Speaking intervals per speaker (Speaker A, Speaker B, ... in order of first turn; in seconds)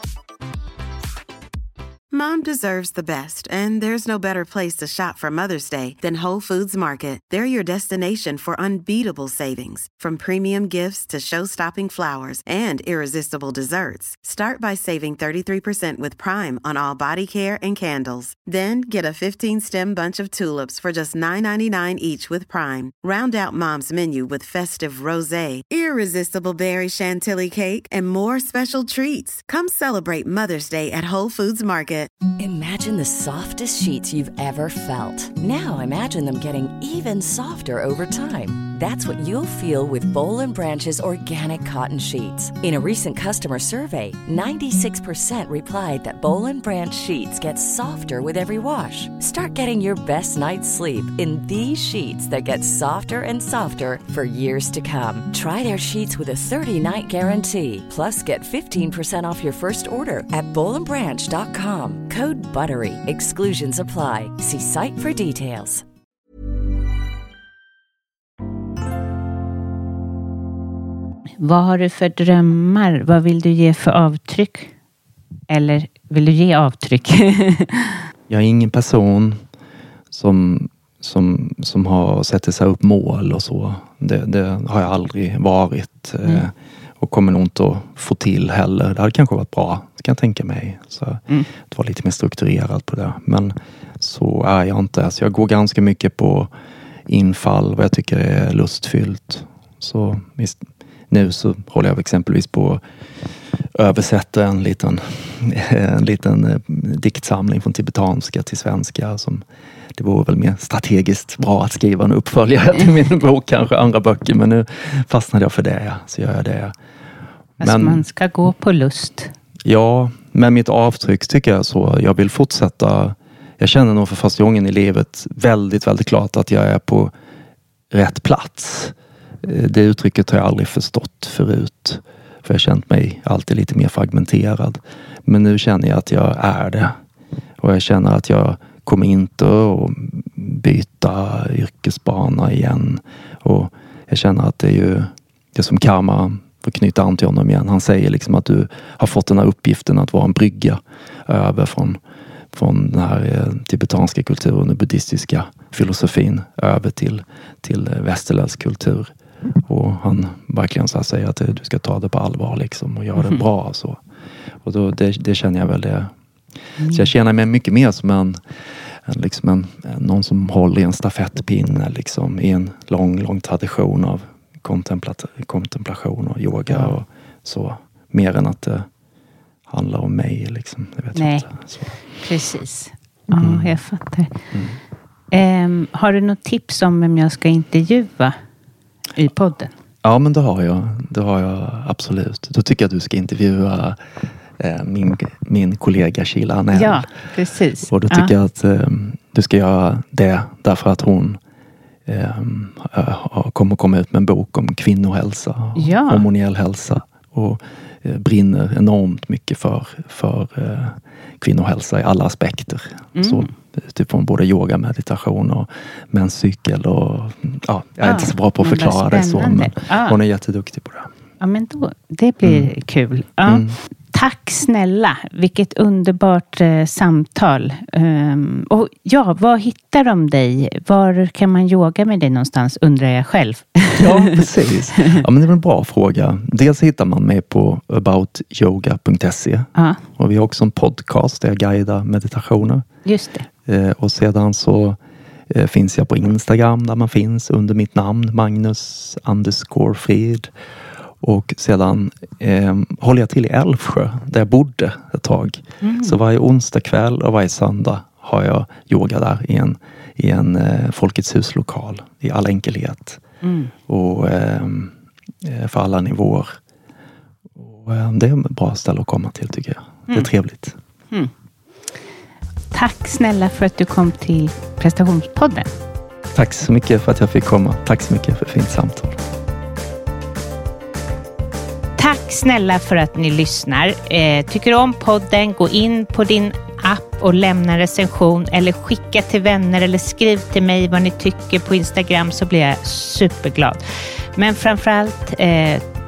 Speaker A: 2.1-32.1
Speaker B: 32.4-65.8
Speaker C: 71.4-74.7, 75.5-78.0, 117.6-119.3, 176.7-177.0, 181.2-181.4, 182.1-184.3, 185.3-188.4, 189.2-189.7, 196.7-198.3, 205.8-206.2, 213.2-213.5, 218.0-220.2, 221.4-235.2, 239.8-240.0, 243.1-243.5, 255.8-256.2, 263.4-263.7, 272.7-275.7, 282.0-293.8, 294.4-295.9
Speaker D: 78.3-79.4, 80.1-96.5, 97.1-102.8, 103.7-109.4, 110.0-116.7, 117.6-118.0, 119.6-127.1, 127.9-137.0, 137.6-152.0, 152.5-159.1, 159.7-164.0, 164.6-166.1, 166.8-168.4, 169.1-178.9, 179.7-182.0, 183.3-183.8, 184.5-184.8, 190.0-194.0, 194.6-197.1, 197.9-201.4, 202.1-221.1, 222.4-222.7, 223.4-223.8, 234.0-242.9, 243.7-245.0, 245.5-250.5, 251.2-263.2, 263.9-266.6, 267.6-270.8, 276.3-279.2